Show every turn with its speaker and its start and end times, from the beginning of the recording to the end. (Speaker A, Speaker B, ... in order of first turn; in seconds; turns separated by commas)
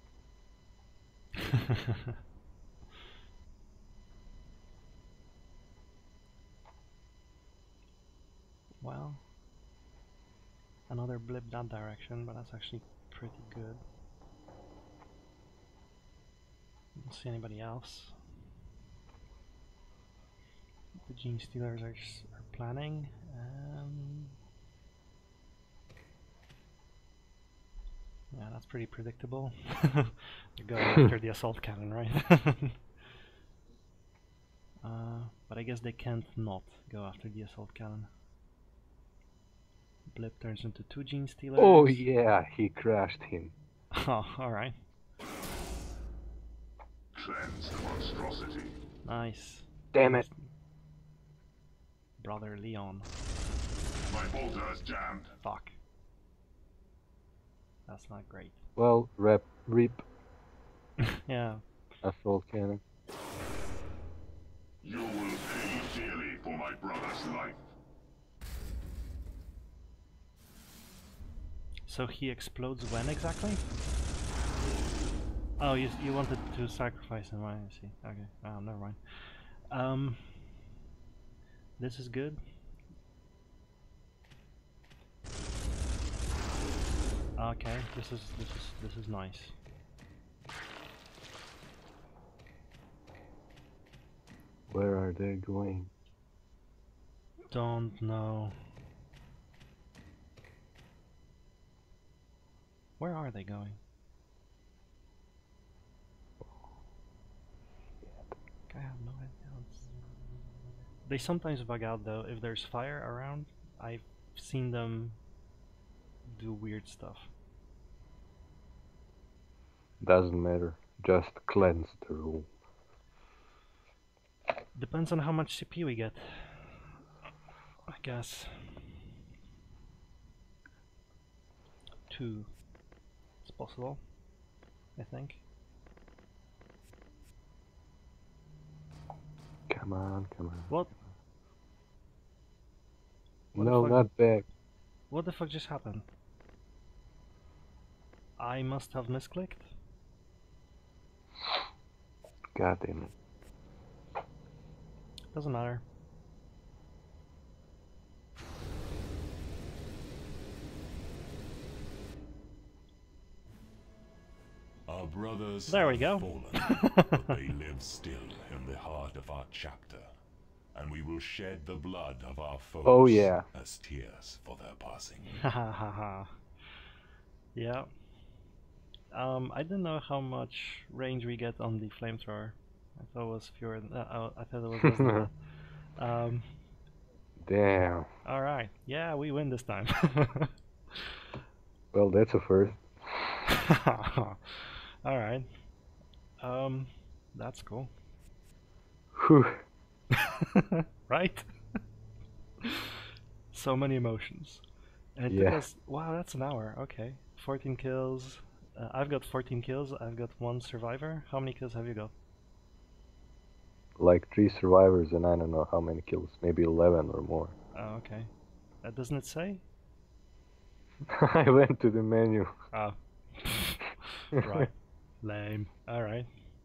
Speaker A: 1.4-2.1, Speaker A: 8.8-9.2, Speaker A: 10.9-13.8, Speaker A: 16.9-18.1, Speaker A: 21.1-24.4, Speaker A: 28.3-32.8, Speaker A: 34.8-38.1, Speaker A: 40.1-42.0, Speaker B: 41.6-43.5, Speaker A: 43.9-44.8, Speaker C: 47.1-48.8, Speaker A: 49.0-50.5, Speaker B: 49.9-50.2, Speaker A: 52.2-53.1, Speaker C: 54.1-55.4, Speaker A: 55.4-55.8, Speaker A: 57.9-58.6, Speaker B: 58.8-60.0, Speaker A: 61.0-61.6, Speaker B: 62.0-62.8, Speaker C: 64.8-67.7, Speaker A: 71.9-73.6, Speaker A: 75.6-80.7, Speaker A: 81.8-82.4, Speaker A: 87.4-89.5, Speaker B: 94.7-95.9, Speaker A: 97.5-98.5, Speaker A: 103.0-103.8, Speaker B: 108.0-108.3, Speaker A: 108.7-109.9, Speaker A: 111.0-115.2, Speaker A: 116.3-117.3, Speaker B: 120.0-122.5, Speaker A: 124.7-126.9, Speaker A: 127.9-128.9, Speaker A: 132.1-132.5, Speaker A: 133.4-134.0, Speaker A: 134.9-135.4, Speaker B: 139.7-140.7, Speaker A: 140.7-140.9, Speaker B: 143.5-144.4, Speaker A: 143.6-144.1, Speaker A: 145.1-146.1, Speaker A: 148.4-149.7, Speaker B: 152.5-153.1, Speaker A: 155.3-155.8, Speaker C: 164.9-170.1, Speaker A: 165.7-167.4, Speaker C: 170.7-175.4, Speaker B: 172.8-173.4, Speaker A: 175.4-176.4, Speaker A: 177.5-177.9, Speaker A: 179.1-185.3, Speaker B: 184.8-185.3, Speaker A: 186.0-186.5, Speaker B: 187.4-188.1, Speaker A: 188.2-191.1, Speaker B: 191.9-193.4, Speaker A: 193.4-195.5, Speaker A: 196.4-197.9, Speaker B: 199.1-199.6, Speaker A: 200.1-201.4, Speaker A: 202.6-204.6, Speaker A: 205.2-212.1, Speaker B: 205.3-205.6, Speaker B: 214.0-217.5, Speaker A: 217.7-218.3, Speaker A: 218.8-219.6, Speaker B: 221.1-222.5, Speaker A: 222.7-226.3, Speaker B: 224.4-224.7